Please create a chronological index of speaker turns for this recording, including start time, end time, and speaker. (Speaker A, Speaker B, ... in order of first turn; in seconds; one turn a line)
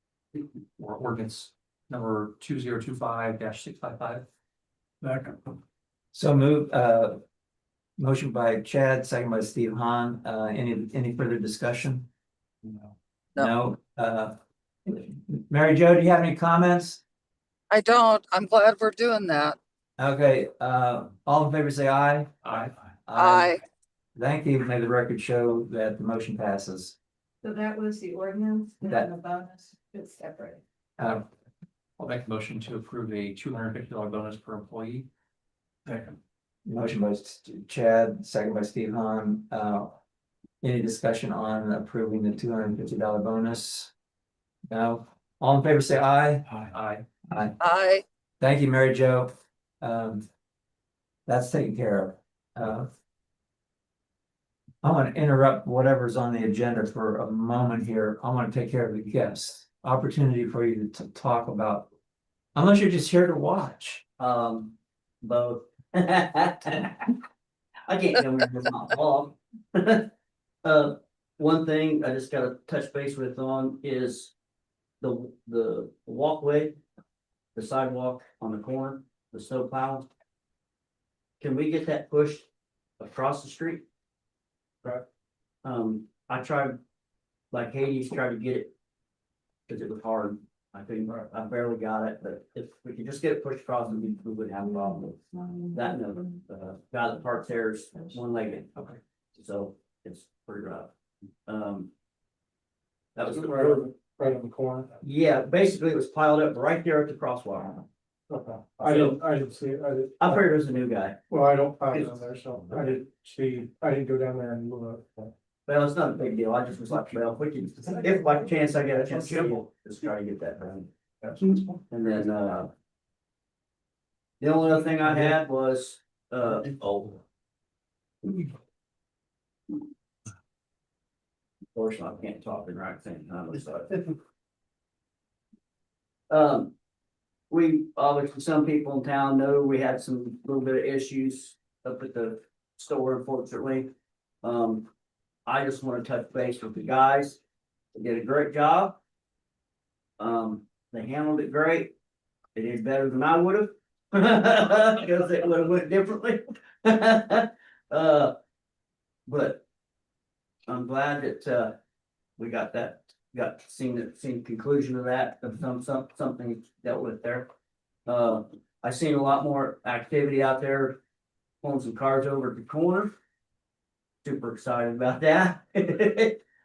Speaker A: 0.8-4.2
Speaker B: 6.1-7.2
Speaker B: 8.0-12.1
Speaker B: 13.4-17.0
Speaker C: 17.7-19.6
Speaker B: 20.0-22.5
Speaker A: 22.4-22.7
Speaker B: 23.1-23.6
Speaker C: 23.1-23.6
Speaker B: 24.2-27.0
Speaker D: 27.4-30.6
Speaker B: 31.0-31.2
Speaker A: 32.0-35.1
Speaker B: 36.7-40.0
Speaker B: 40.6-43.9
Speaker B: 44.7-46.5
Speaker A: 46.5-47.1
Speaker B: 47.3-47.6
Speaker C: 47.6-48.0
Speaker B: 48.4-50.2
Speaker B: 51.3-52.9
Speaker B: 54.8-61.9
Speaker B: 62.5-64.0
Speaker E: 64.2-67.1
Speaker E: 67.9-70.1
Speaker E: 70.6-74.3
Speaker E: 75.0-76.8
Speaker E: 77.5-80.1
Speaker E: 81.4-82.5
Speaker E: 83.0-83.8
Speaker E: 85.6-86.8
Speaker E: 87.5-88.7
Speaker E: 89.7-95.2
Speaker D: 95.1-95.8
Speaker E: 95.7-98.8
Speaker E: 99.3-100.9
Speaker E: 101.5-101.9
Speaker E: 103.2-103.9
Speaker F: 103.3-104.9
Speaker E: 105.0-107.8
Speaker F: 108.3-110.5
Speaker E: 108.8-109.2
Speaker E: 110.2-111.2
Speaker F: 111.3-115.3
Speaker E: 111.9-112.2
Speaker E: 115.7-122.7
Speaker E: 124.4-127.2
Speaker E: 131.8-133.9
Speaker E: 136.3-136.7
Speaker E: 137.5-143.9
Speaker E: 144.4-144.9
Speaker E: 145.5-147.4
Speaker E: 147.9-149.0
Speaker E: 150.2-151.9
Speaker E: 152.6-158.3
Speaker E: 159.3-159.6
Speaker E: 160.7-161.7
Speaker E: 162.4-167.5
Speaker E: 168.1-171.0
Speaker E: 171.6-173.1
Speaker E: 174.2-176.4